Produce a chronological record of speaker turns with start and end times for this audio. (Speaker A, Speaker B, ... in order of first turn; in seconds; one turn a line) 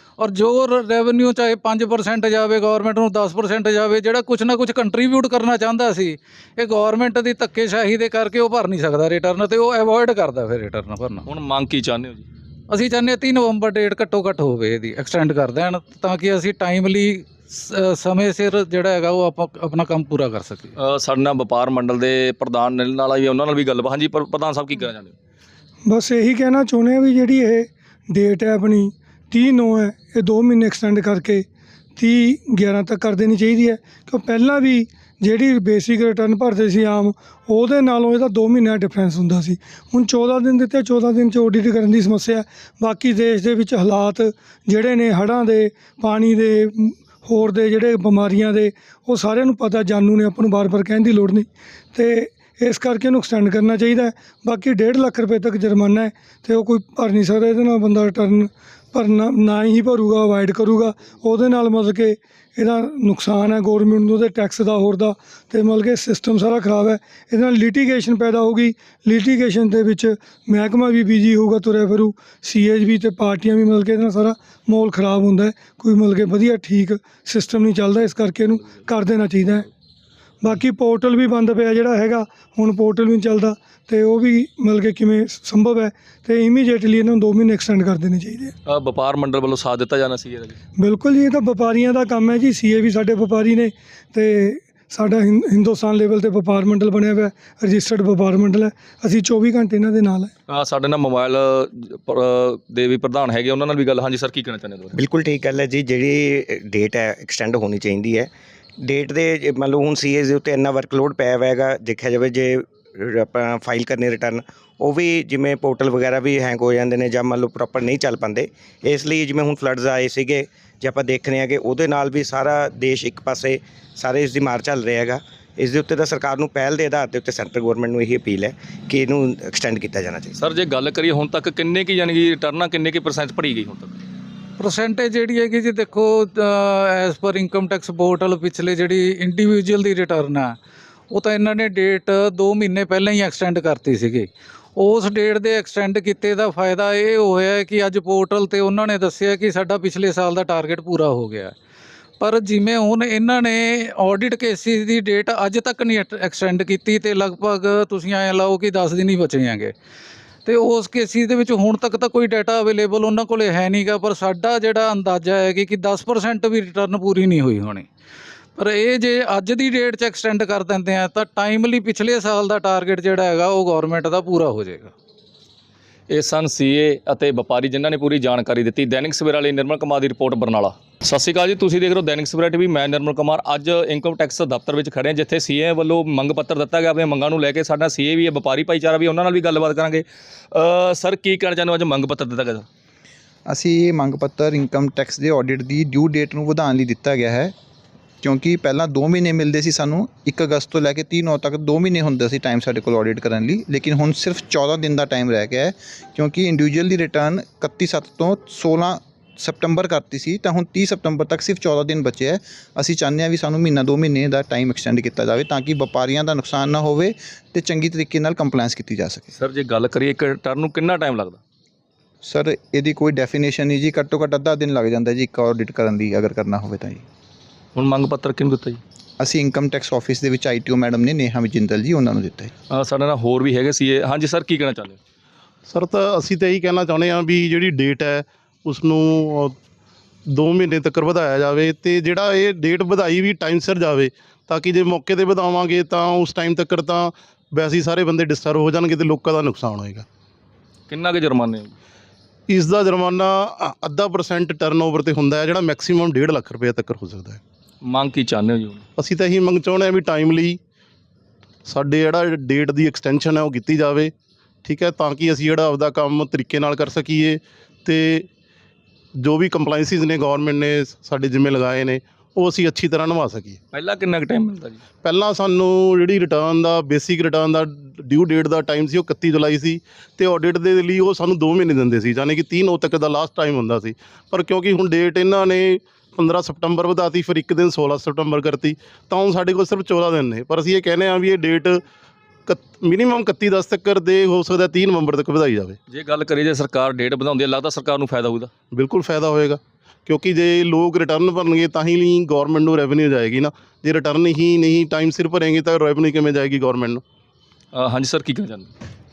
Speaker A: 0.2-11.2
Speaker B: 11.2-12.2
Speaker A: 12.7-20.7
Speaker B: 20.8-25.1
Speaker C: 25.8-79.7
Speaker C: 80.4-88.5
Speaker B: 88.7-90.5
Speaker C: 90.8-100.3
Speaker B: 100.5-104.9
Speaker D: 104.9-108.3
Speaker D: 108.8-130.3
Speaker B: 130.4-133.9
Speaker A: 134.6-140.6
Speaker A: 141.1-151.5
Speaker A: 152.2-159.7
Speaker A: 160.4-167.9
Speaker A: 168.6-174.9
Speaker B: 176.1-192.6
Speaker E: 193.5-197.5
Speaker E: 198.2-219.3
Speaker B: 219.3-221.4
Speaker E: 222.2-227.0
Speaker B: 227.8-228.8
Speaker E: 229.2-232.5
Speaker B: 232.7-235.0
Speaker F: 235.7-239.5
Speaker F: 240.3-250.0
Speaker B: 250.9-251.7
Speaker F: 252.5-257.4
Speaker B: 257.9-258.8
Speaker F: 259.0-260.6
Speaker F: 261.6-264.1
Speaker F: 264.6-268.3
Speaker F: 269.2-273.6
Speaker B: 273.7-274.8
Speaker F: 275.0-291.8
Speaker F: 292.5-295.8
Speaker B: 295.9-298.5
Speaker F: 298.7-307.0
Speaker B: 307.7-308.7